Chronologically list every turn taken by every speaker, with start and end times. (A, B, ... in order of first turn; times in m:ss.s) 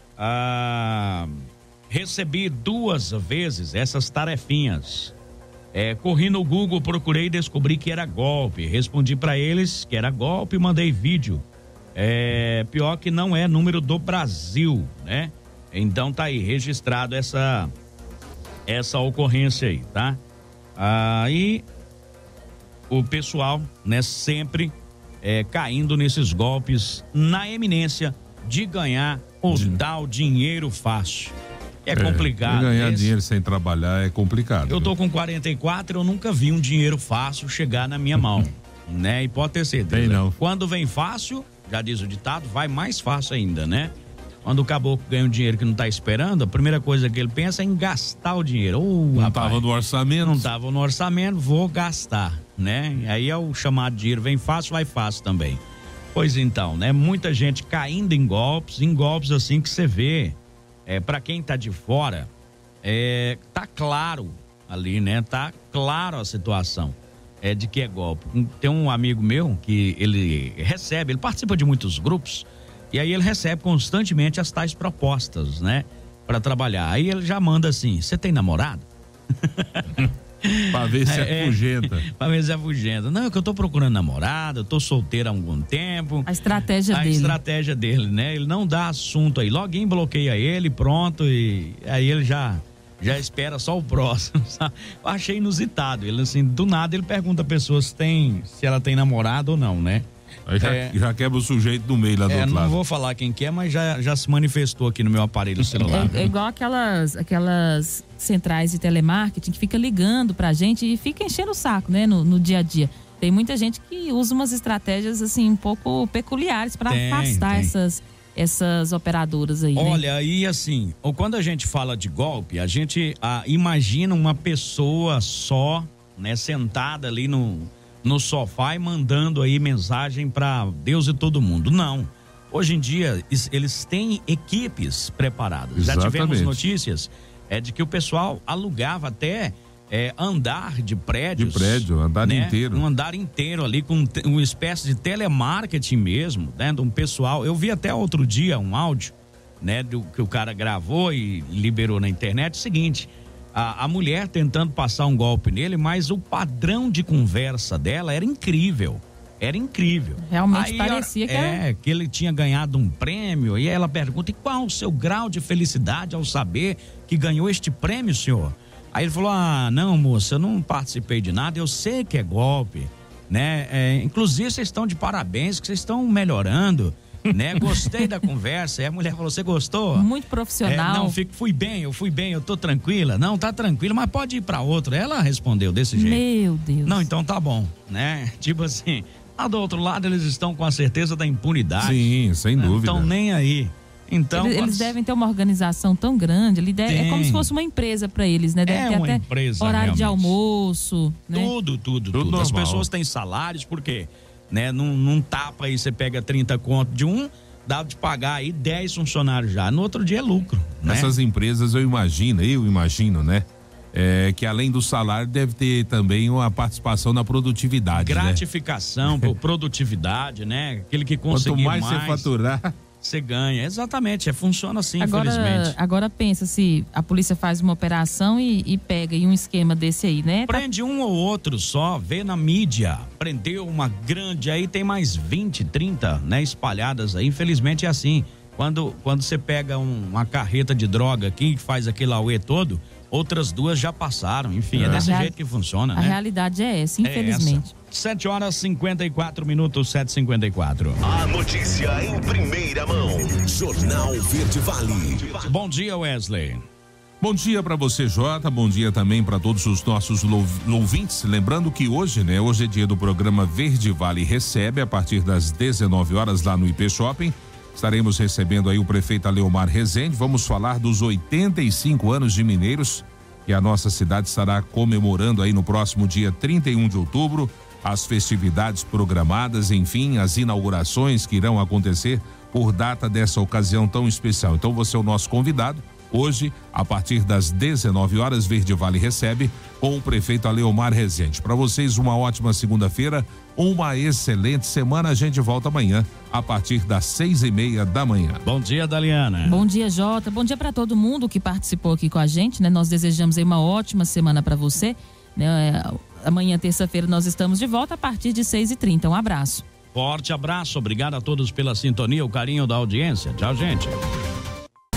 0:00.2-0:05.1 A
0:05.7-0:17.7 A
0:18.7-0:20.2 A
0:20.8-0:21.6 A
0:22.9-0:31.3 A
0:29.5-0:29.8 B
0:31.8-0:33.1 A
0:31.9-0:34.9 B
0:34.7-0:43.9 A
0:39.9-0:40.4 B
0:44.4-0:49.6 A
0:49.2-0:50.5 B
0:50.2-0:55.6 A
0:56.1-1:02.3 A
1:02.8-1:18.9 A
1:19.4-1:26.3 A
1:20.7-1:22.0 B
1:26.3-1:27.4 C
1:26.9-1:40.0 A
1:40.4-1:42.8 B
1:40.6-1:41.0 A
1:42.3-1:46.3 A
1:45.8-1:46.2 B
1:45.8-2:00.0 C
1:56.9-1:57.7 A
1:59.8-3:00.1 A
2:15.8-2:16.7 B
2:21.4-2:22.8 B
2:40.2-2:41.6 C
2:57.6-2:57.9 B
3:00.0-3:01.2 C
3:00.6-3:06.2 A
3:05.9-3:07.1 C
3:06.8-3:14.9 A
3:11.8-3:13.1 B
3:14.3-3:21.5 C
3:16.9-3:17.5 A
3:18.6-3:20.4 A
3:21.3-3:31.1 A
3:22.1-3:22.9 B
3:30.8-3:38.4 B
3:37.9-3:42.3 A
3:41.3-3:42.7 B
3:43.0-3:45.8 A
3:45.0-3:50.6 C
3:50.5-4:06.2 A
4:04.7-4:05.2 B
4:04.8-4:05.3 C
4:05.9-4:07.7 C
4:07.0-4:11.0 A
4:11.0-4:15.5 D
4:15.4-4:16.6 A
4:17.2-4:58.4 B
4:58.4-4:59.6 A
4:59.4-5:09.6 C
5:09.9-5:14.0 A